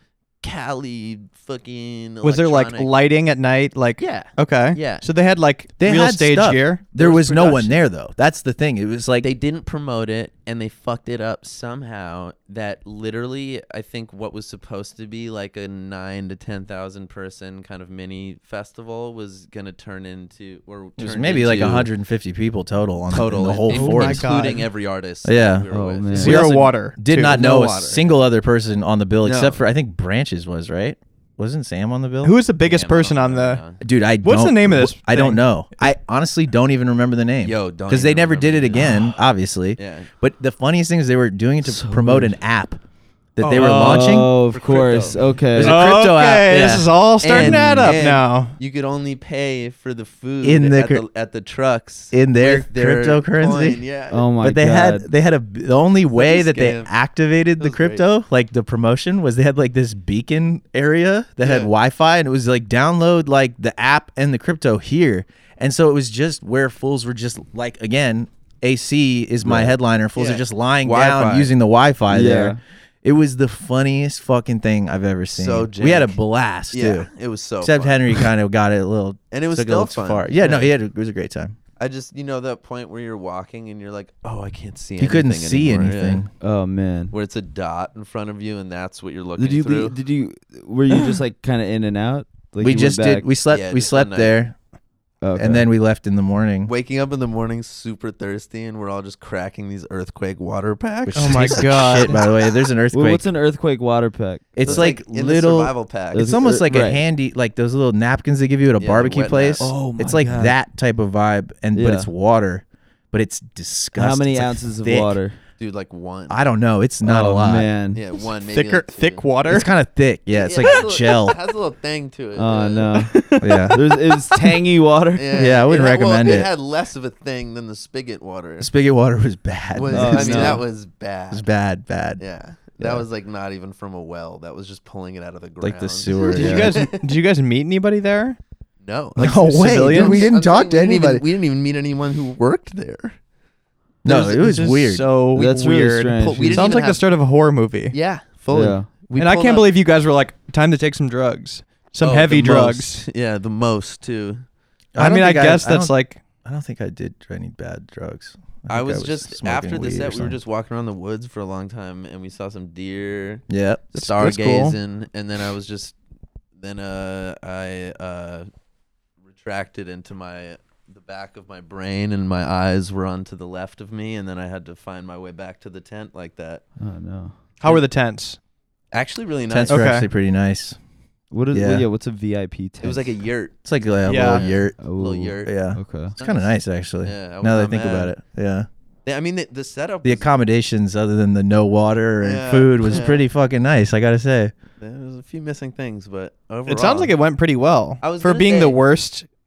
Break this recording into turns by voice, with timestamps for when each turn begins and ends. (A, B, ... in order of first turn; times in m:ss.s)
0:00.4-0:02.9 A
0:02.2-0:06.8 B
0:04.0-0:05.1 A
0:05.8-0:09.3 C
0:06.9-0:07.8 A
0:09.2-0:21.9 A
0:21.0-0:24.3 C
0:23.1-0:26.4 A
0:23.7-0:24.6 B
0:25.2-0:32.4 C
0:25.7-0:26.4 D
0:26.1-0:27.4 B
0:27.2-0:28.2 A
0:29.2-0:29.6 A
0:32.2-0:33.6 B
0:32.6-0:33.8 A
0:33.8-0:42.8 C
0:34.2-0:35.4 B
0:37.4-0:39.2 A
0:39.8-0:40.1 A
0:41.6-0:42.4 D
0:43.4-0:44.3 C
0:43.4-0:44.1 B
0:43.8-0:45.8 D
0:44.5-0:45.3 A
0:45.5-0:48.0 C
0:45.6-0:48.6 B
0:47.2-0:54.3 A
0:50.4-0:51.0 C
0:52.1-0:53.8 C
0:54.1-0:55.1 D
0:54.4-1:17.1 C
0:56.1-0:56.9 A
0:57.6-0:58.0 A
1:01.4-1:01.7 A
1:09.4-1:09.7 D
1:10.1-1:11.5 A
1:12.1-1:12.6 D
1:15.3-1:16.2 A
1:16.7-1:18.3 A
1:17.6-1:21.6 C
1:19.3-1:20.7 A
1:21.8-1:26.2 A
1:25.0-1:26.3 C
1:26.4-1:27.2 D
1:27.1-1:30.0 A
1:29.4-1:33.3 D
1:32.6-1:34.5 C
1:33.5-1:34.4 A
1:35.2-1:35.7 D
1:35.3-1:36.7 C
1:36.6-1:42.3 A
1:41.1-1:43.3 C
1:41.1-1:42.2 B
1:42.9-1:44.9 D
1:44.6-1:55.2 C
1:44.6-1:46.6 A
1:46.1-1:47.0 D
1:48.8-1:49.8 A
1:49.6-1:50.6 D
1:51.7-1:52.1 D
1:53.9-1:55.4 D
1:55.6-1:56.4 A
1:56.3-1:57.7 C
1:57.0-1:58.0 D
1:57.9-1:59.3 A
1:58.1-1:59.7 B
1:59.4-2:01.4 C
2:00.3-2:03.1 A
2:02.3-2:05.3 D
2:03.1-2:04.2 B
2:03.4-2:03.8 C
2:05.1-2:08.7 A
2:05.3-2:06.5 C
2:08.6-2:10.6 C
2:09.7-2:11.4 A
2:09.9-2:10.6 D
2:11.3-2:12.2 C
2:12.2-2:17.0 A
2:12.8-2:13.0 C
2:15.6-2:16.8 C
2:16.2-2:18.4 B
2:18.8-2:23.2 A
2:19.2-2:20.3 B
2:19.2-2:21.2 C
2:24.0-2:25.1 C
2:24.0-2:27.9 B
2:25.3-2:26.7 D
2:26.2-2:27.0 A
2:27.9-2:29.7 A
2:28.5-2:28.9 D
2:29.1-2:33.0 B
2:32.0-2:34.4 A
2:34.9-2:40.4 C
2:35.0-2:36.2 B
2:38.7-2:46.0 A
2:43.5-2:43.8 C
2:43.9-2:44.8 B
2:46.6-2:48.5 A
2:49.3-2:56.6 A
2:56.8-2:57.4 D
2:57.6-2:58.4 B
2:58.9-2:59.9 A
2:59.5-3:00.8 C
2:59.7-3:00.1 B
3:01.3-3:03.1 D
3:01.5-3:01.9 C
3:02.8-3:08.1 A
3:03.6-3:04.8 C
3:04.0-3:04.4 B
3:04.8-3:06.1 D
3:05.4-3:08.7 C
3:09.0-3:10.3 A
3:10.0-3:14.5 C
3:12.2-3:13.2 A
3:14.8-3:17.1 A
3:16.6-3:19.3 B
3:18.0-3:18.8 A